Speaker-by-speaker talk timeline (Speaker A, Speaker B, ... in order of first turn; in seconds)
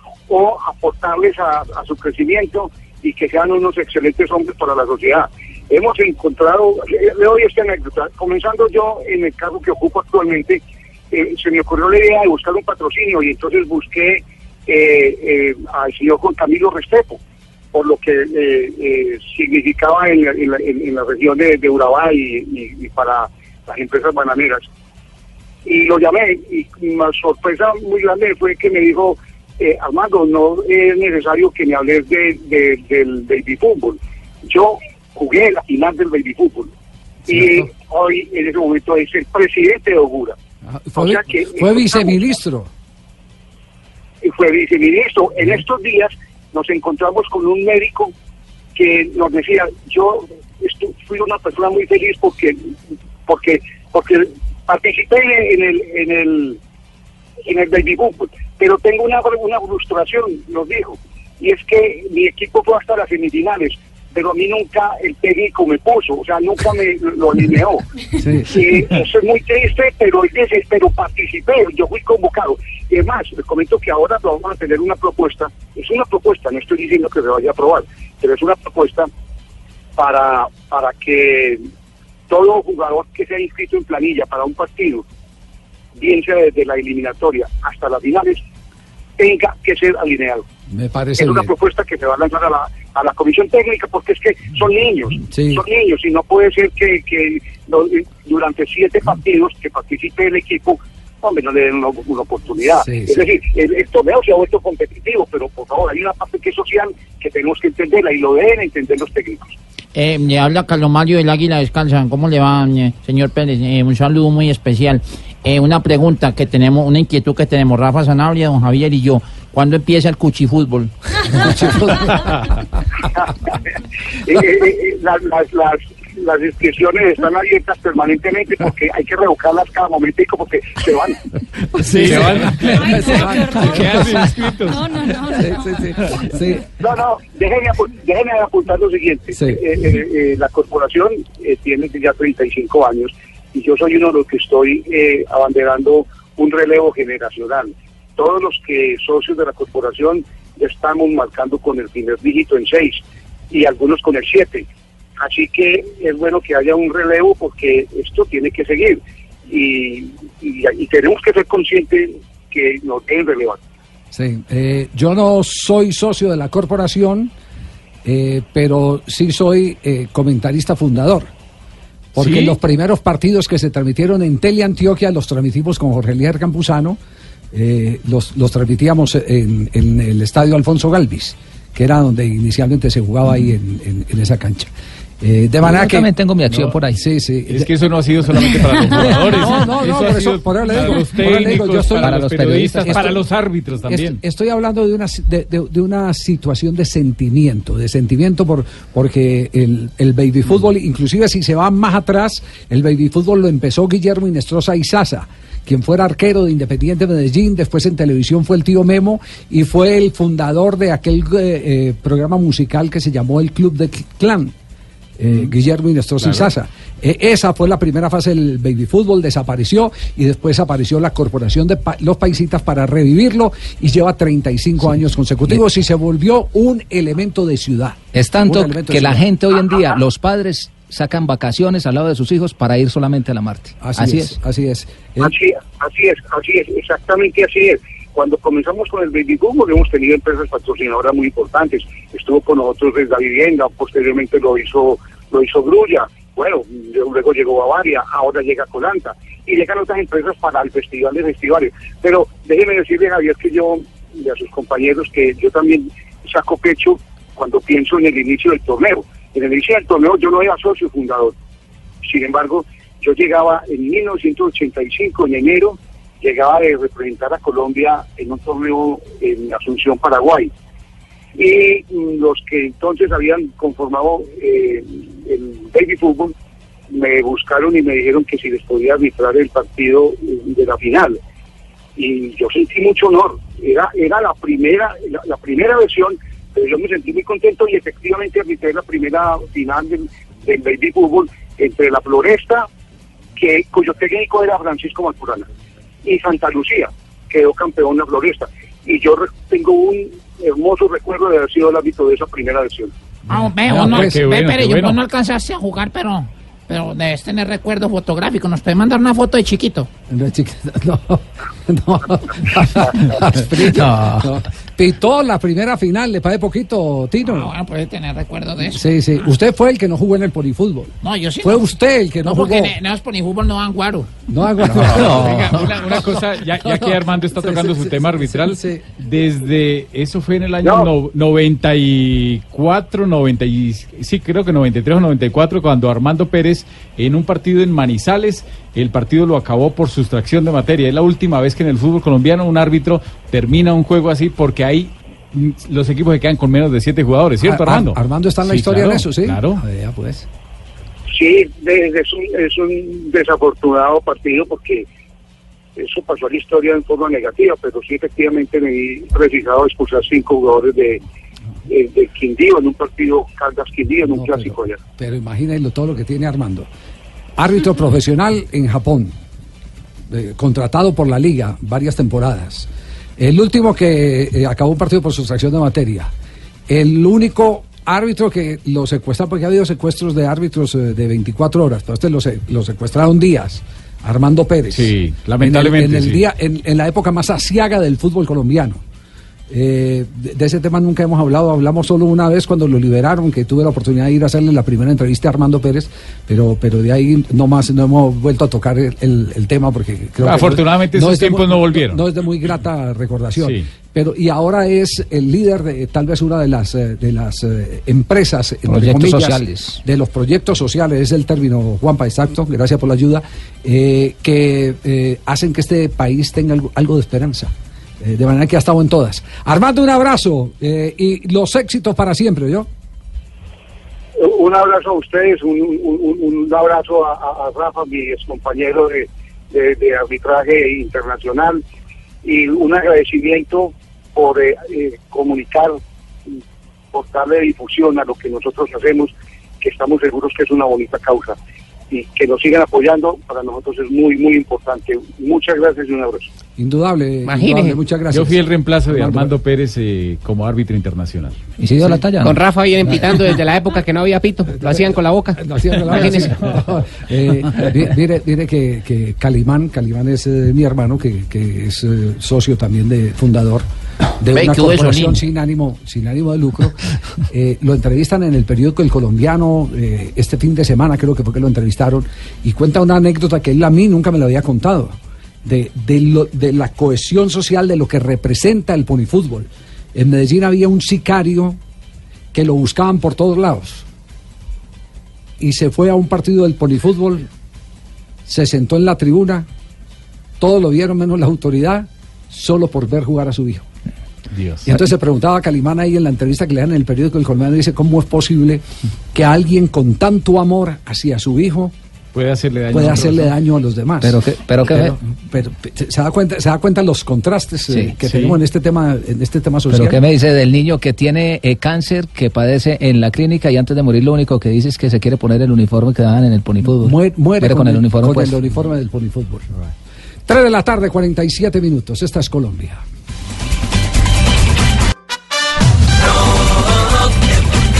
Speaker A: 0.3-17.2, 17.7-24.6, 25.6-36.7, 37.3-40.4, 41.0-42.2, 44.2-48.1, 48.8-52.6, 53.3-56.6, 57.4-67.8, 68.5-79.1, 80.0-81.6, 82.3-85.0, 86.0-88.4, 89.2-90.4, 91.2-109.5, 123.2-123.5, 124.2-131.2, 136.8-154.7, 155.2-163.6, 235.2-261.3, 262.1-270.5, 271.4-276.3, 276.9-281.2, 281.9-292.7, 293.4-295.5, 296.1-302.9, 330.6-330.9, 351.1-354.9, 355.8-361.0, 361.7-364.8, 424.2-431.6, 432.2-436.4, 436.9-441.4, 441.9-446.3
Speaker B: 40.6-42.7, 68.2-68.6, 90.7-91.5, 95.3-95.6, 102.8-103.2, 121.4-122.2, 131.8-134.3, 135.3-136.7, 139.3-139.6, 164.1-167.3, 168.1-171.3, 172.1-177.0, 177.5-184.7, 185.2-187.7, 188.9-193.2, 193.9-214.5, 215.2-229.3, 233.8-235.3, 303.3-304.2, 310.1-317.5, 318.7-322.8, 324.3-328.9, 347.4-350.3, 364.0-366.7, 367.4-369.1, 370.1-376.1, 376.7-388.8, 389.5-422.7, 446.6-449.4, 454.6-463.6, 464.2-481.6, 482.3-483.9, 485.4-487.3, 488.3-489.5, 490.4-493.7, 494.6-501.7, 502.7-510.0, 516.6-519.5, 520.3-522.8
Speaker C: 109.9-120.9, 464.3-465.1
Speaker D: 131.8-134.9, 172.2-172.6, 187.5-194.2, 303.7-305.0, 324.9-349.6, 384.7-386.2, 400.2-402.0, 403.4-403.6, 448.1-451.4, 494.3-494.7, 502.1-503.3, 508.1-508.4
Speaker E: 132.6-135.8
Speaker F: 185.6-187.0, 192.0-193.1, 228.1-234.4, 313.9-314.2, 408.7-409.8, 451.6-452.4, 504.0-504.9, 509.7-518.4
Speaker G: 303.3-309.9, 317.3-318.8, 321.0-321.6, 322.3-324.1
Speaker H: 447.2-447.8, 452.2-456.4